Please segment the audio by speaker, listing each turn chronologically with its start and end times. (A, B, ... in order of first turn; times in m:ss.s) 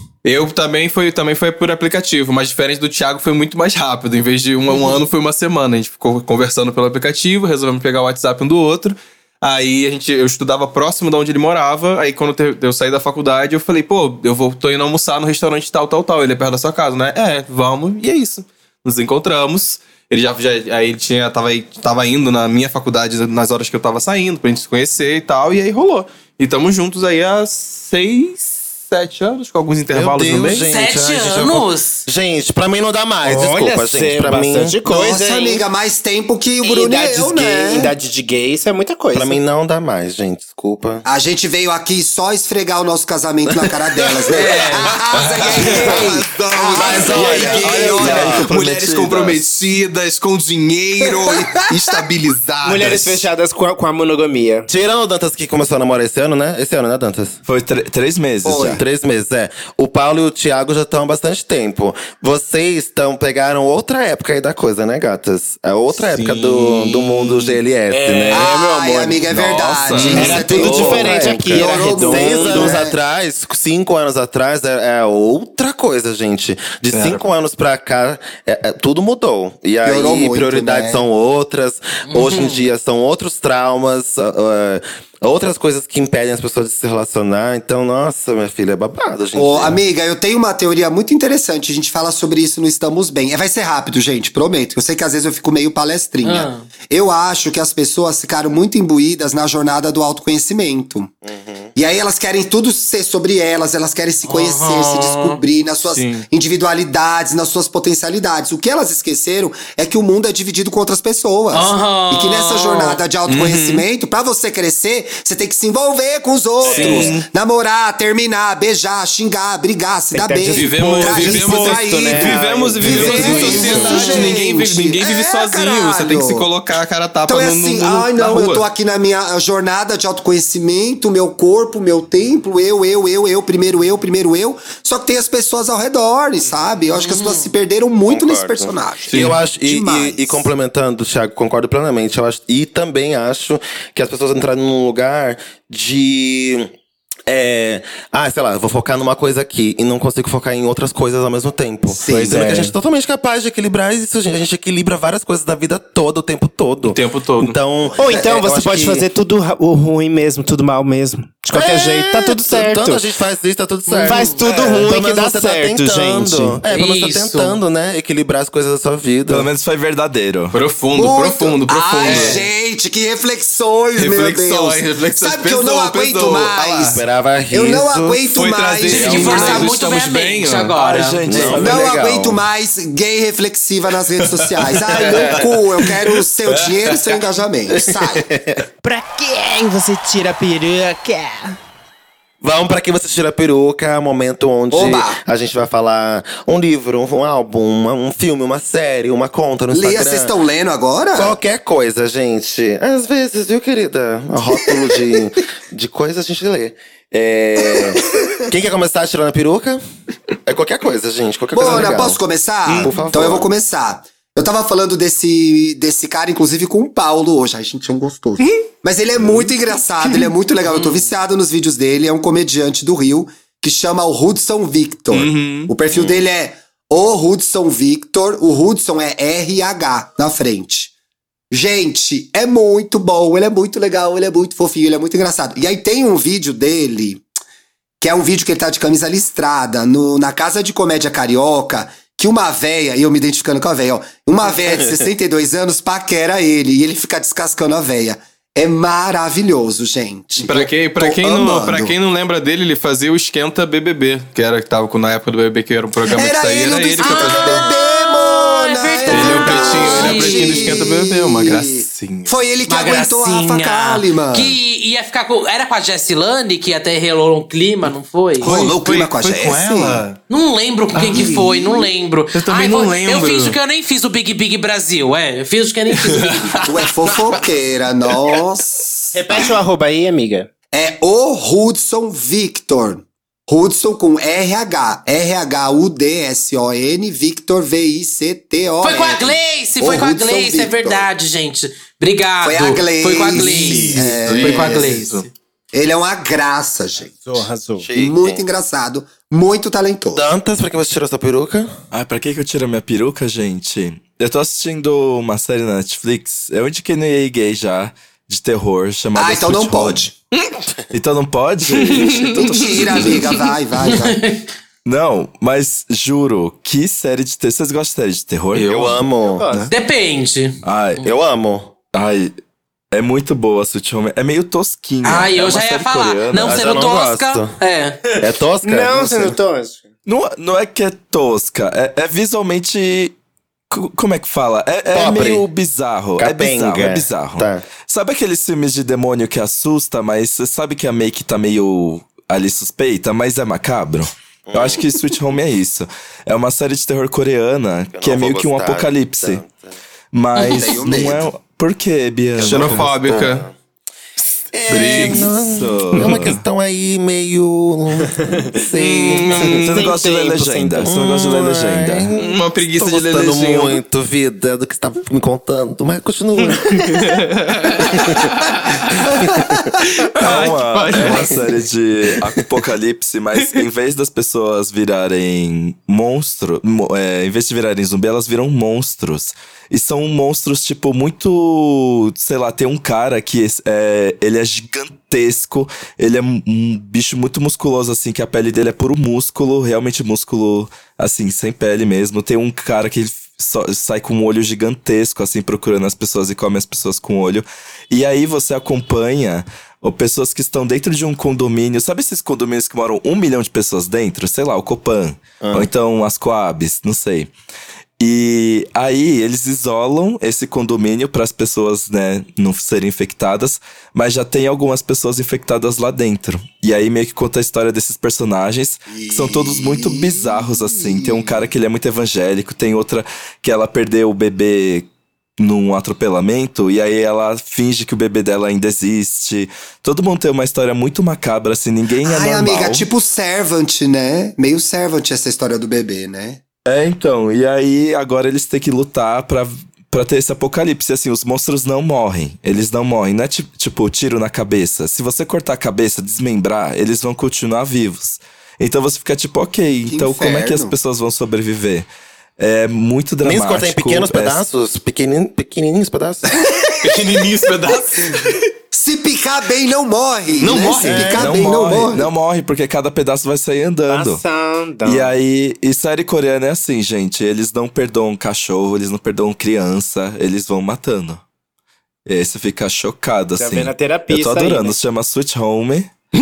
0:00.2-0:30.7 A
0:29.9-0:34.8 B
0:30.7-0:32.1 C
0:33.2-0:35.7 D
0:34.8-0:37.9 E
0:36.6-0:39.4 D
0:39.1-0:41.0 B
0:41.0-0:48.4 E
0:43.5-0:43.7 B
0:44.3-0:44.9 C
0:45.1-0:53.3 A
0:46.7-0:48.4 B
0:47.2-0:49.4 F
0:51.1-0:51.5 E
0:52.6-0:54.7 D
0:54.7-0:57.4 B
0:57.5-0:58.8 F
0:58.4-0:58.8 E
0:58.6-1:09.1 B
1:05.9-1:08.6 A
1:08.3-1:13.0 E
1:09.3-1:10.8 A
1:09.9-1:29.8 B
1:10.1-1:12.8 D
1:16.9-1:17.2 A
1:19.8-1:21.0 E
1:22.1-1:22.7 C
1:29.4-1:41.1 E
1:36.2-1:36.7 C
1:41.2-1:41.7 B
1:41.8-2:06.5 E
1:44.3-1:45.4 C
1:45.9-1:46.3 A
1:51.5-1:53.0 C
1:53.3-1:53.8 A
1:56.6-1:57.2 D
1:56.6-1:57.3 A
2:00.1-2:04.4 D
2:00.5-2:08.6 A
2:07.3-2:20.5 E
2:17.0-2:17.5 C
2:18.1-2:26.7 B
2:19.1-2:19.4 A
2:27.3-2:39.1 B
2:32.0-2:32.7 D
2:36.8-2:37.6 A
2:38.0-2:43.1 D
2:41.5-2:49.5 B
2:43.9-2:44.4 C
2:44.0-2:46.6 D
2:46.7-2:47.6 C
2:49.3-2:50.6 F
2:50.5-2:52.5 A
2:50.9-2:57.0 E
2:52.1-2:52.4 C
2:54.0-2:57.0 A
2:56.9-2:58.3 B
2:57.5-2:59.7 E
2:58.3-3:00.8 A
2:58.9-3:01.2 C
2:58.9-2:59.7 B
3:00.8-3:02.0 F
3:01.3-3:02.4 B
3:01.5-3:08.3 E
3:04.2-3:07.2 A
3:05.0-3:05.4 B
3:07.7-3:08.6 B
3:08.8-3:11.6 D
3:12.4-3:20.3 B
3:14.7-3:15.2 E
3:19.7-3:21.4 E
3:21.2-3:29.8 B
3:30.5-3:33.5 B
3:31.5-3:50.9 E
3:45.1-3:45.7 A
3:45.9-3:46.2 B
3:51.5-3:57.2 E
3:58.0-4:12.0 E
4:10.4-4:17.7 A
4:16.1-4:24.6 E
4:17.0-4:20.9 C
4:19.1-4:22.3 A
4:22.7-4:28.5 C
4:28.4-4:30.2 A
4:28.4-4:30.0 E
4:30.3-4:36.6 C
4:30.9-4:33.6 A
4:35.9-4:37.4 A
4:36.6-4:39.5 E
4:39.1-4:40.5 D
4:40.7-4:51.1 E
4:48.8-4:55.2 C
4:52.4-4:57.2 E
4:53.3-4:55.3 A
4:57.1-4:57.9 D
4:57.8-4:58.4 B
4:58.0-5:00.3 E
5:00.1-5:01.7 B
5:01.9-5:10.0 F
5:09.2-5:10.1 E
5:10.9-5:13.4 F
5:11.8-5:13.2 A
5:12.6-5:14.2 E
5:13.8-5:14.4 C
5:14.8-5:19.0 F
5:18.6-5:19.5 B
5:19.2-5:19.7 D
5:19.5-5:19.7 A
5:19.7-5:21.1 C
5:20.6-5:21.0 F
5:21.0-5:21.7 B
5:21.9-5:22.3 F
5:22.9-5:26.8 F
5:25.0-5:28.0 C
5:26.4-5:27.6 B
5:28.1-5:29.9 D
5:28.2-5:29.4 B
5:30.1-5:33.1 F
5:33.7-5:49.4 F
5:34.9-5:35.5 B
5:36.2-5:37.7 B
5:44.5-5:44.9 B
5:47.9-5:49.8 B
5:50.1-5:52.9 F
5:50.4-5:50.6 C
5:50.5-5:51.3 E
5:52.4-5:53.5 A
5:52.4-5:53.6 B
5:54.5-5:59.8 B
5:54.7-5:55.4 A
5:55.1-5:56.4 F
5:58.8-5:59.9 A
5:59.6-6:02.1 F
5:59.7-6:00.9 D
6:00.8-6:07.1 B
6:02.1-6:03.8 A
6:06.7-6:11.5 A
6:07.8-6:08.3 B
6:09.0-6:09.7 B
6:10.2-6:47.3 F
6:45.4-6:45.7 B
6:48.0-7:04.9 F
6:58.9-7:01.5 E
7:05.4-7:12.8 F
7:12.0-7:16.4 E
7:16.7-7:31.9 F
7:29.9-7:30.8 E
7:32.4-7:34.4 F
7:33.2-7:36.3 B
7:36.6-7:37.0 E
7:36.8-7:38.4 A
7:38.7-7:42.1 E
7:40.4-7:41.2 A
7:40.8-7:41.4 B
7:41.2-7:44.2 F
7:43.9-7:45.1 D
7:44.9-7:51.2 F
7:52.1-7:55.9 F
7:53.4-7:54.8 D